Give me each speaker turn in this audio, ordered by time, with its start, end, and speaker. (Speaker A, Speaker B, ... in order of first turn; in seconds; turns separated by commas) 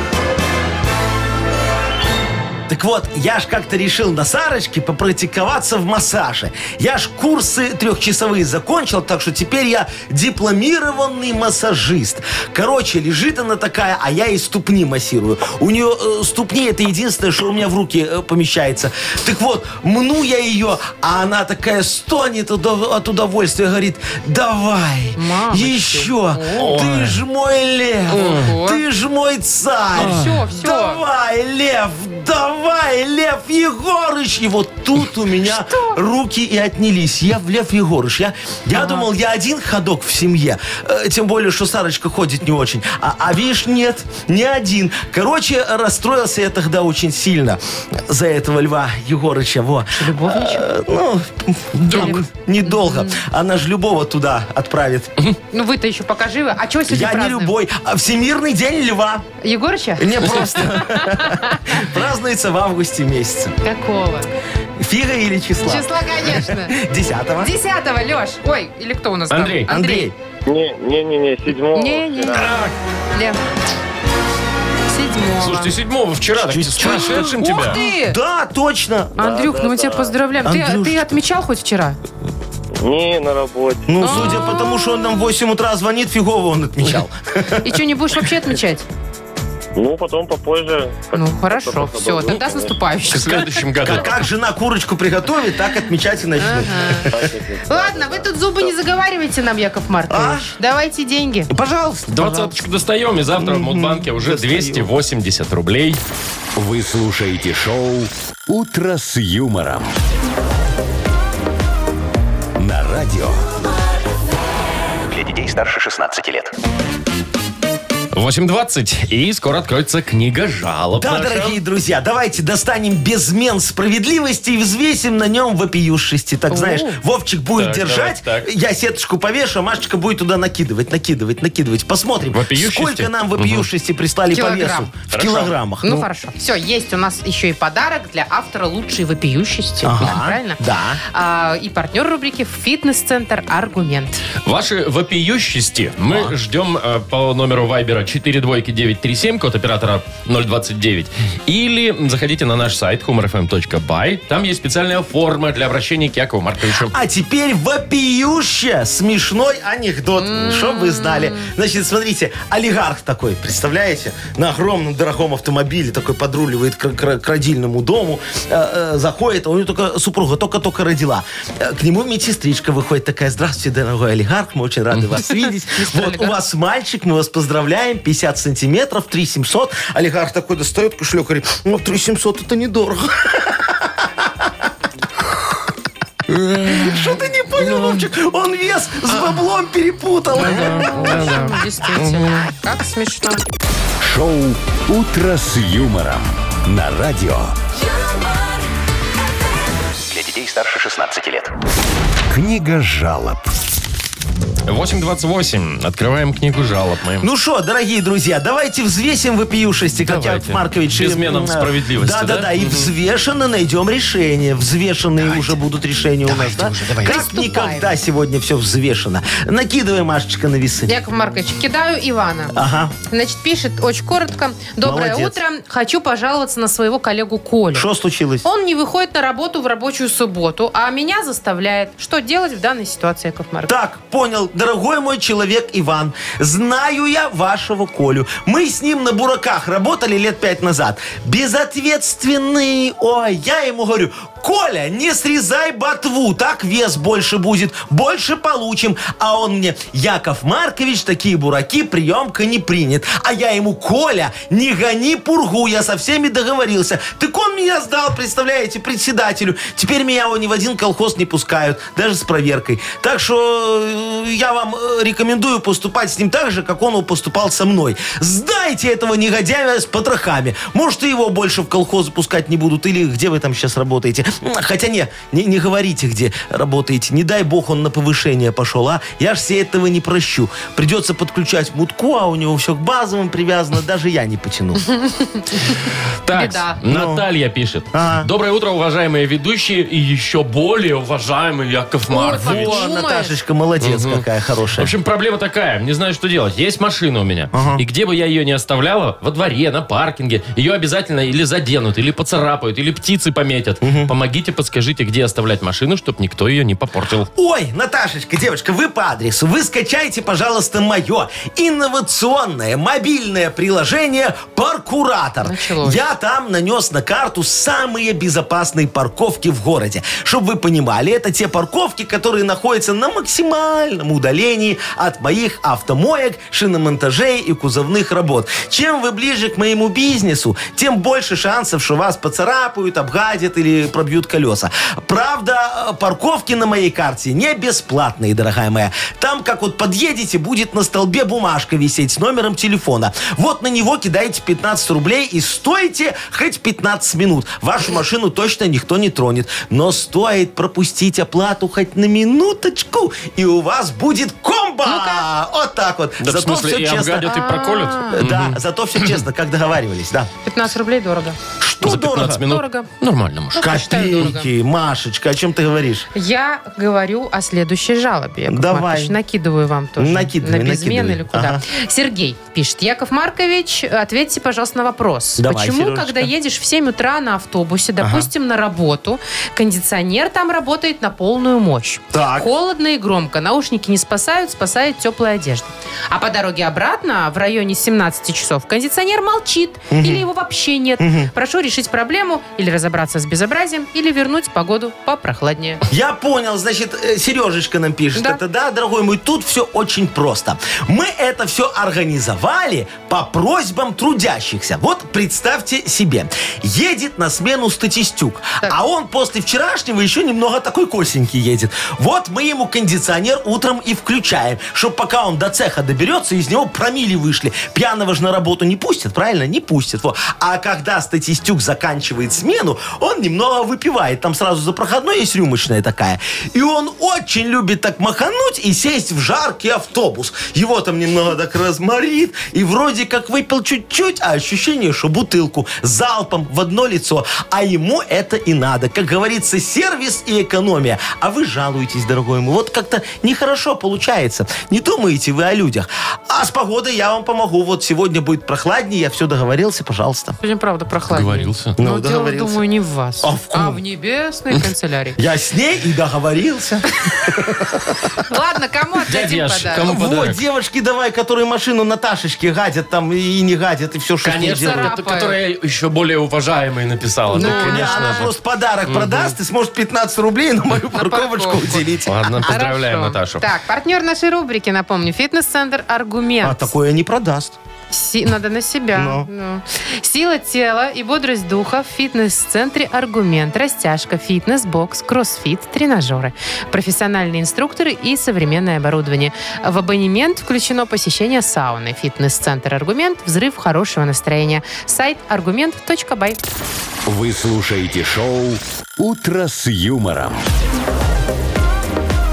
Speaker A: 2.7-55.2, Speaker B: 25.1-26.7, Speaker C: 26.6-27.2, Speaker B: 28.1-28.8, Speaker B: 29.9-31.0, Speaker C: 30.0-30.3, Speaker B: 35.5-36.0, Speaker B: 38.7-39.1, Speaker B: 49.9-50.6, Speaker B: 51.9-53.2, Speaker B: 55.5-57.5, Speaker A: 56.9-59.2, Speaker B: 59.4-61.8, Speaker A: 60.0-63.5, Speaker B: 63.6-64.3, Speaker A: 64.8-67.5, Speaker B: 65.6-66.8, Speaker B: 67.4-70.1, Speaker C: 69.3-69.7, Speaker A: 69.7-70.1, Speaker D: 70.5-72.5, Speaker B: 71.7-72.6, Speaker C: 72.3-72.7, Speaker B: 74.9-75.7, Speaker C: 75.4-77.8, Speaker A: 76.3-79.2, Speaker B: 76.8-78.2, Speaker D: 79.2-80.1, Speaker B: 79.2-82.0, Speaker A: 80.4-81.2, Speaker D: 82.8-84.0, Speaker A: 83.9-87.6, Speaker B: 84.0-85.2, Speaker B: 87.6-88.8, Speaker D: 89.8-92.8, Speaker B: 91.1-94.0, Speaker C: 93.1-94.2, Speaker A: 93.8-97.3, Speaker B: 96.4-97.1, Speaker D: 97.1-98.8, Speaker B: 97.7-101.5, Speaker A: 100.1-100.5, Speaker A: 101.5-102.5, Speaker C: 102.1-106.0, Speaker A: 103.3-104.9, Speaker E: 106.5-109.9, Speaker E: 112.6-113.4, Speaker F: 115.1-116.5, Speaker C: 118.1-121.6, Speaker A: 120.9-136.1, Speaker B: 126.5-127.0, Speaker C: 127.5-128.5, Speaker C: 132.3-133.7, Speaker B: 134.3-134.9, Speaker C: 135.1-135.5, Speaker B: 135.8-140.6, Speaker A: 139.8-141.0, Speaker B: 141.1-144.2, Speaker C: 144.4-156.9, Speaker A: 146.1-146.3, Speaker A: 156.7-184.5, Speaker B: 160.2-161.5, Speaker B: 175.2-176.3, Speaker C: 186.3-188.1, Speaker A: 186.6-191.5, Speaker C: 190.3-192.4, Speaker B: 190.5-193.4, Speaker E: 194.0-197.5, Speaker F: 200.1-201.5, Speaker E: 202.3-203.5, Speaker C: 204.7-207.3, Speaker A: 207.2-220.9, Speaker C: 210.0-212.9, Speaker C: 216.3-217.1, Speaker B: 217.0-217.9, Speaker B: 220.8-222.6, Speaker A: 222.5-222.9, Speaker B: 223.1-227.9, Speaker A: 224.8-225.4, Speaker A: 227.7-228.4, Speaker B: 228.4-233.7, Speaker A: 233.7-284.8, Speaker B: 284.9-285.5, Speaker C: 286.2-292.8, Speaker B: 286.3-286.8, Speaker A: 286.9-287.2, Speaker A: 287.9-288.3, Speaker B: 292.1-293.4, Speaker A: 292.2-294.9, Speaker C: 293.8-294.2, Speaker C: 294.8-307.3, Speaker A: 297.5-297.8, Speaker A: 303.8-304.1, Speaker A: 307.3-357.3, Speaker B: 315.4-316.0, Speaker B: 354.8-355.2, Speaker C: 356.2-359.2, Speaker B: 357.2-358.2, Speaker A: 358.1-360.3, Speaker B: 360.4-361.4, Speaker A: 361.6-362.5, Speaker C: 361.8-364.2, Speaker B: 362.4-362.9, Speaker B: 363.5-364.5, Speaker A: 363.6-366.1, Speaker B: 366.1-395.8, Speaker A: 368.5-369.2, Speaker A: 370.0-371.6, Speaker A: 375.4-376.3, Speaker A: 378.0-378.3, Speaker A: 382.1-382.5, Speaker A: 389.9-390.2, Speaker A: 391.0-391.3, Speaker A: 395.9-450.4, Speaker B: 398.1-398.4, Speaker B: 450.4-455.2, Speaker C: 451.1-451.8, Speaker A: 451.8-452.6, Speaker A: 453.2-453.8, Speaker A: 455.2-457.9, Speaker B: 458.2-459.9, Speaker C: 459.1-460.4, Speaker A: 459.8-464.9, Speaker C: 464.2-468.3, Speaker B: 464.5-465.4, Speaker B: 467.3-468.3, Speaker A: 467.3-472.5, Speaker C: 468.9-469.3, Speaker B: 470.9-471.9, Speaker C: 472.1-473.4, Speaker B: 472.4-476.7, Speaker A: 476.4-477.6, Speaker B: 477.9-496.4, Speaker A: 478.9-479.3, Speaker E: 497.1-500.4